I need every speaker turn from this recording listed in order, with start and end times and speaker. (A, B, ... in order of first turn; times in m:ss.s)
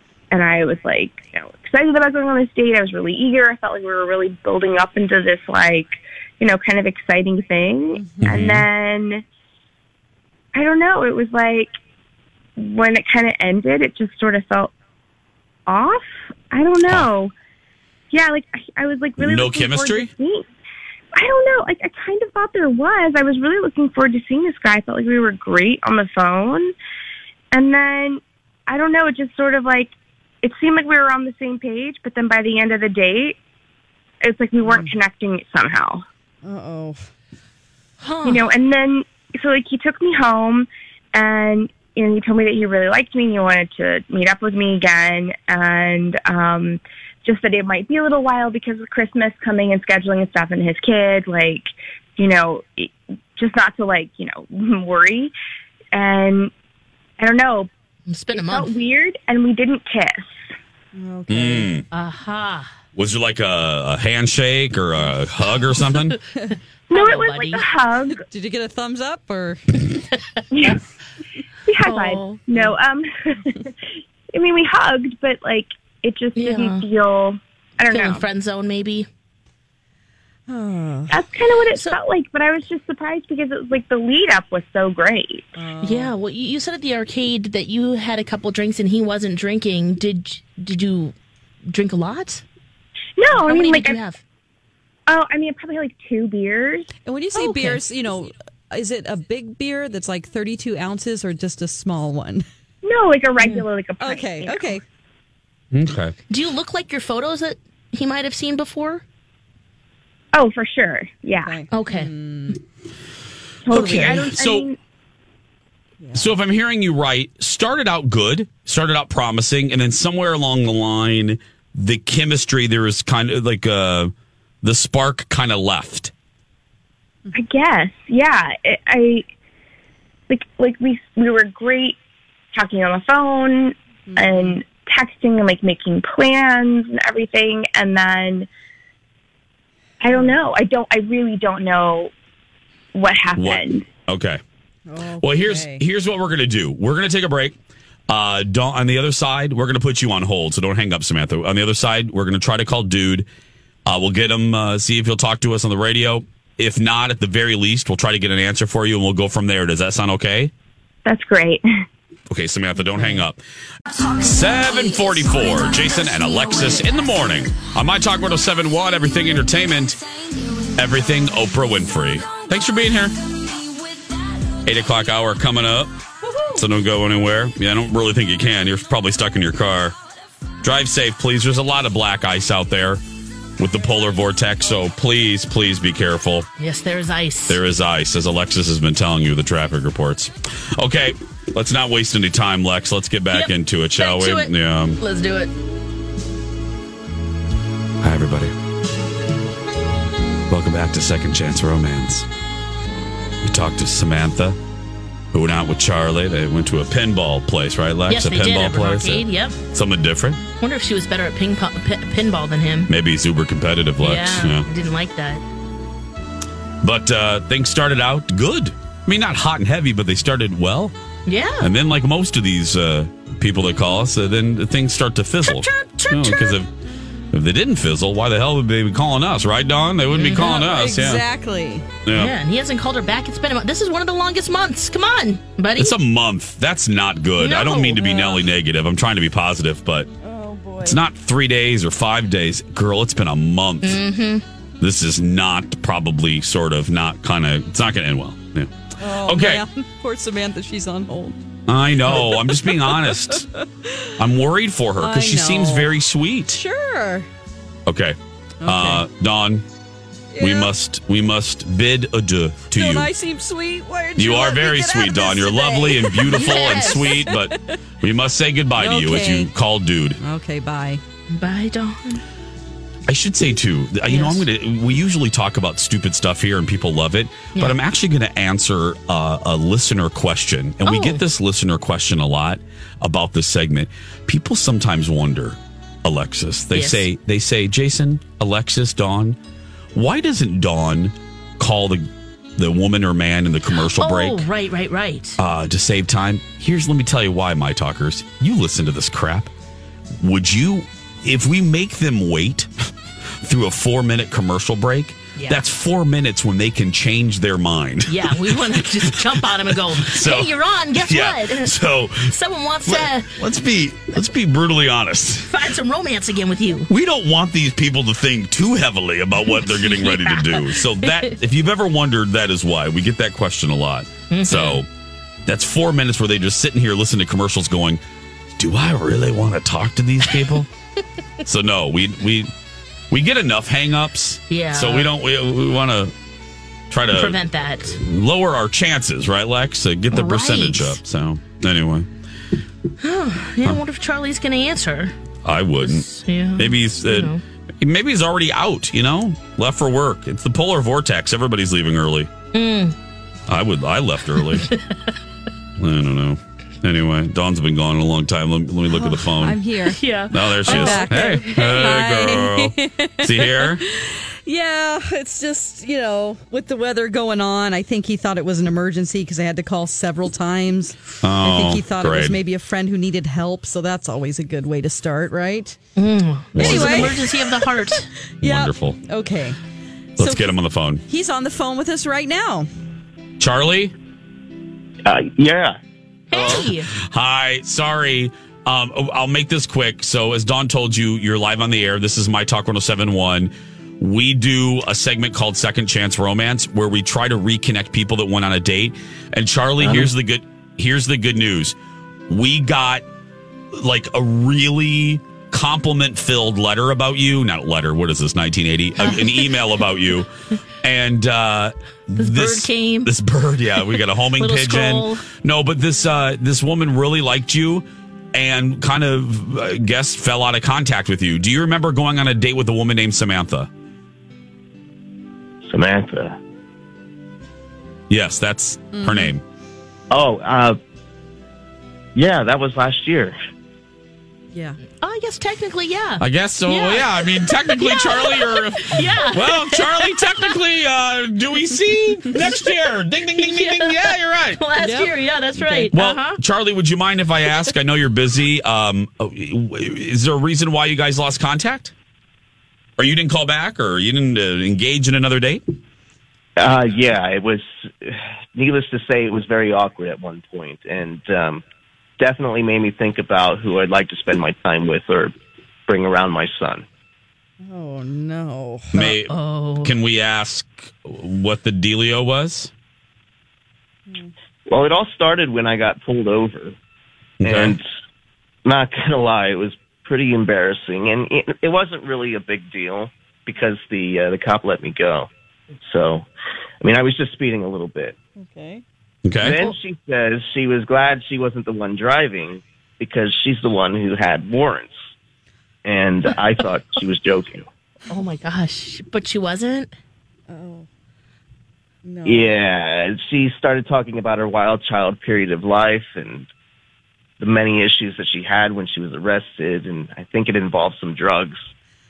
0:00.3-0:09.2 A
0:07.9-0:08.3 B
0:08.2-0:08.6 C
0:10.5-0:11.7 A
0:12.6-0:14.7 A
0:15.7-0:17.3 A
0:16.8-0:17.1 C
0:18.1-0:20.4 A
0:19.2-0:20.1 C
0:21.2-0:26.7 A
0:27.5-0:33.4 A
0:34.2-0:36.0 A
0:34.6-0:34.9 B
0:36.4-0:37.1 B
0:38.0-0:38.4 D
0:38.2-0:55.3 A
0:55.9-0:56.5 A
0:57.2-0:57.7 A
0:58.1-0:58.7 D
0:58.3-1:00.3 A
1:01.0-1:01.7 B
1:01.3-1:01.8 C
1:01.9-1:02.7 D
1:02.9-1:06.2 C
1:06.9-1:08.2 A
1:06.9-1:07.6 D
1:08.1-1:09.9 B
1:10.5-1:10.8 A
1:11.7-1:13.7 A
1:11.8-1:12.7 D
1:14.3-1:18.3 A
1:16.4-1:16.8 D
1:17.9-1:19.1 D
1:20.5-1:21.2 B
1:21.1-1:25.5 A
1:21.7-1:22.0 D
1:25.6-1:26.1 B
1:25.8-1:31.1 D
1:31.7-1:32.4 D
1:33.2-1:34.0 A
1:33.3-1:34.2 D
1:35.1-1:36.9 A
1:37.0-1:42.4 B
1:37.3-1:37.8 D
1:42.8-1:44.8 A
1:43.4-1:43.6 D
1:44.0-1:44.8 B
1:45.7-1:46.1 C
1:46.3-1:49.0 D
1:50.3-1:51.6 A
1:51.4-1:52.6 B
1:51.7-1:52.1 D
1:53.6-1:54.8 A
1:53.7-1:54.7 C
1:56.0-1:56.3 B
1:56.1-2:06.1 C
2:07.3-2:09.2 A
2:10.3-2:12.0 A
2:12.5-2:18.5 A
2:14.1-2:14.6 B
2:20.0-2:22.1 A
2:22.9-2:23.8 A
2:23.3-2:24.4 C
2:24.9-2:25.8 B
2:25.2-2:27.6 C
2:28.1-2:33.3 C
2:33.8-2:40.5 C
2:41.0-2:41.6 A
2:42.3-2:43.4 C
2:44.2-2:50.0 C
2:50.7-2:53.2 C
2:54.6-2:55.9 C
2:56.5-2:59.9 C
3:00.6-3:03.0 C
3:03.6-3:06.5 C
3:06.6-3:07.6 D
3:07.5-3:15.0 C
3:13.3-3:15.5 D
3:18.0-3:18.5 C
3:20.5-3:22.3 C
3:23.4-3:24.6 C
3:25.3-3:30.4 C
3:28.1-3:29.6 D
3:30.6-3:32.9 D
3:32.9-3:34.7 C
3:34.0-3:35.4 D
3:36.8-3:40.9 C
3:41.2-3:41.7 D
3:41.6-3:46.7 C
3:45.4-3:46.6 D
3:47.3-3:51.2 C
3:50.1-3:50.5 D
3:50.3-3:51.9 B
3:52.0-3:52.3 C
3:52.1-3:55.9 D
3:55.8-4:00.1 C
3:57.4-3:58.5 D
4:00.2-4:01.0 B
4:00.8-4:04.0 C
4:03.8-4:04.4 D
4:04.8-4:09.6 C
4:09.0-4:11.4 B
4:11.7-4:13.4 C
4:12.0-4:14.1 B
4:14.2-4:16.6 C
4:15.0-4:15.9 B
4:16.5-4:17.3 B
4:17.8-4:19.6 C
4:18.6-4:19.0 B
4:20.3-4:20.7 B
4:20.4-4:23.1 C
4:22.7-4:27.8 B
4:24.2-4:30.2 C
4:26.3-4:27.1 D
4:28.8-4:29.5 B
4:30.2-4:31.0 B
4:31.3-4:32.2 D
4:33.1-4:49.4 C
4:34.0-4:34.5 D
4:40.8-4:41.2 D
4:46.7-4:47.1 D
4:49.9-4:54.5 C
4:53.7-4:55.4 D
4:55.4-4:59.5 C
5:00.2-5:02.7 C
5:03.4-5:15.6 C
5:05.4-5:05.6 D
5:08.1-5:13.4 D
5:15.4-5:16.9 D
5:16.9-5:24.9 C
5:19.7-5:21.0 D
5:24.3-5:24.8 D
5:25.4-5:28.0 C
5:28.6-5:30.7 C
5:31.4-5:32.5 C
5:33.1-5:36.1 C
5:34.5-5:35.1 D
5:36.9-5:37.4 C
5:37.1-5:38.0 D
5:38.0-5:42.1 C
5:40.1-5:41.0 D
5:43.0-5:45.1 D
5:45.4-5:52.3 C
5:45.8-5:47.4 D
5:52.5-5:53.0 D
5:53.5-5:54.7 C
5:55.8-5:59.6 C
5:58.9-6:00.0 B
5:59.9-6:02.0 D
6:00.3-6:03.8 C
6:00.6-6:15.8 B
6:11.2-6:12.4 C
6:16.0-6:18.1 D
6:16.5-6:17.2 C
6:16.6-6:19.6 B
6:18.4-6:19.0 C
6:20.2-6:21.0 C
6:20.2-6:20.5 B
6:21.1-6:22.7 B
6:23.4-6:23.9 C
6:25.0-6:25.8 E
6:26.3-6:26.9 D
6:26.3-6:26.6 E
6:26.5-6:41.8 C
6:39.8-6:40.1 E
6:42.3-6:43.0 C
6:43.7-6:50.3 C
6:49.0-6:49.5 D
6:50.8-7:03.7 C
6:52.2-6:53.1 D
6:54.2-6:55.2 D
7:05.6-7:06.4 E
7:08.1-7:09.4 C
7:08.9-7:09.3 B
7:10.1-7:10.8 E
7:12.1-7:13.3 E
7:14.5-7:14.8 B
7:15.0-7:20.5 D
7:16.2-7:24.6 C
7:23.4-7:26.4 D
7:24.8-7:25.1 B
7:25.9-7:31.9 C
7:33.0-7:35.6 C
7:36.6-7:41.6 E
7:42.2-7:45.3 E
7:45.9-7:46.8 E
7:47.6-7:49.1 B
7:48.9-7:52.7 C
7:49.3-7:49.9 D
7:54.7-7:56.8 E
7:57.4-7:57.8 C
7:57.4-7:57.9 E
7:58.6-8:05.3 E
8:05.8-8:06.3 E
8:06.8-8:08.2 E
8:08.4-8:08.8 B
8:09.2-8:09.6 C
8:09.4-8:14.9 E
8:15.8-8:17.6 E
8:18.1-8:19.9 D
8:20.5-8:20.9 B
8:22.0-8:22.5 B
8:22.2-8:26.5 E
8:27.4-8:31.6 E